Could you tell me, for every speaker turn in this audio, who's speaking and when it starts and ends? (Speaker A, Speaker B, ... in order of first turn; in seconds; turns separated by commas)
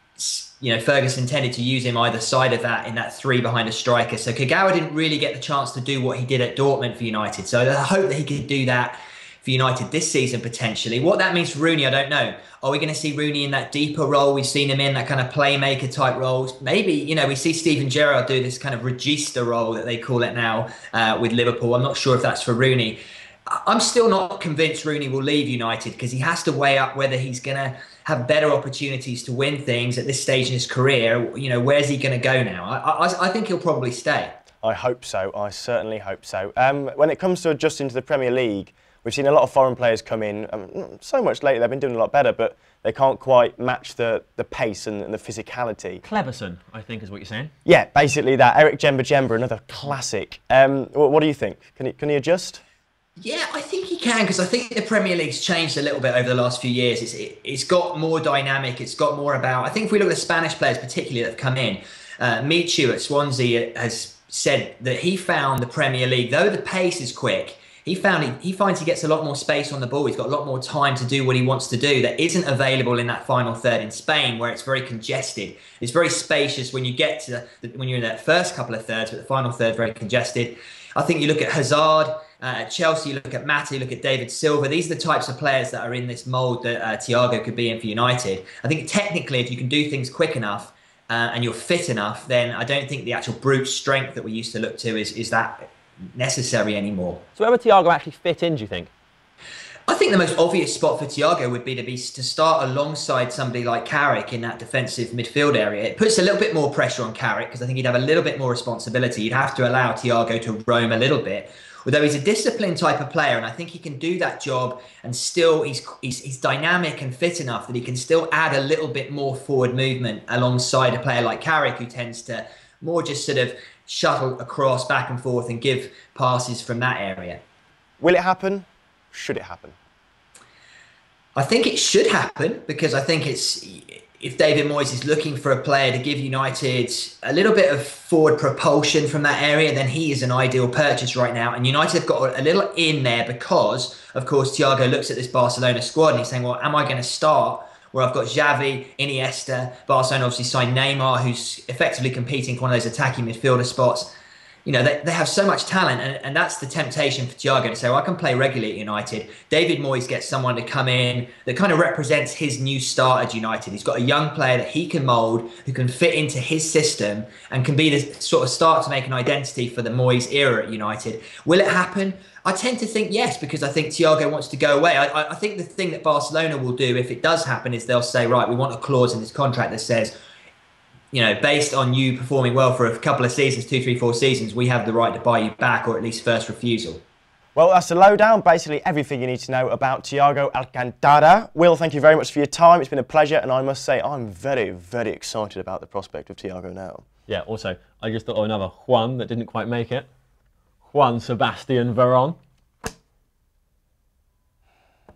Speaker A: 0.2-34.4, Speaker B: 34.6-46.0, Speaker C: 46.0-47.5, Speaker B: 47.6-52.6, Speaker A: 53.2-97.2, Speaker C: 97.4-98.9, Speaker A: 99.9-127.4, Speaker B: 128.0-129.8, Speaker A: 131.4-154.1, Speaker A: 154.7-180.2, Speaker A: 181.1-187.0, Speaker B: 187.6-197.0, Speaker C: 197.3-200.1, Speaker C: 200.9-202.4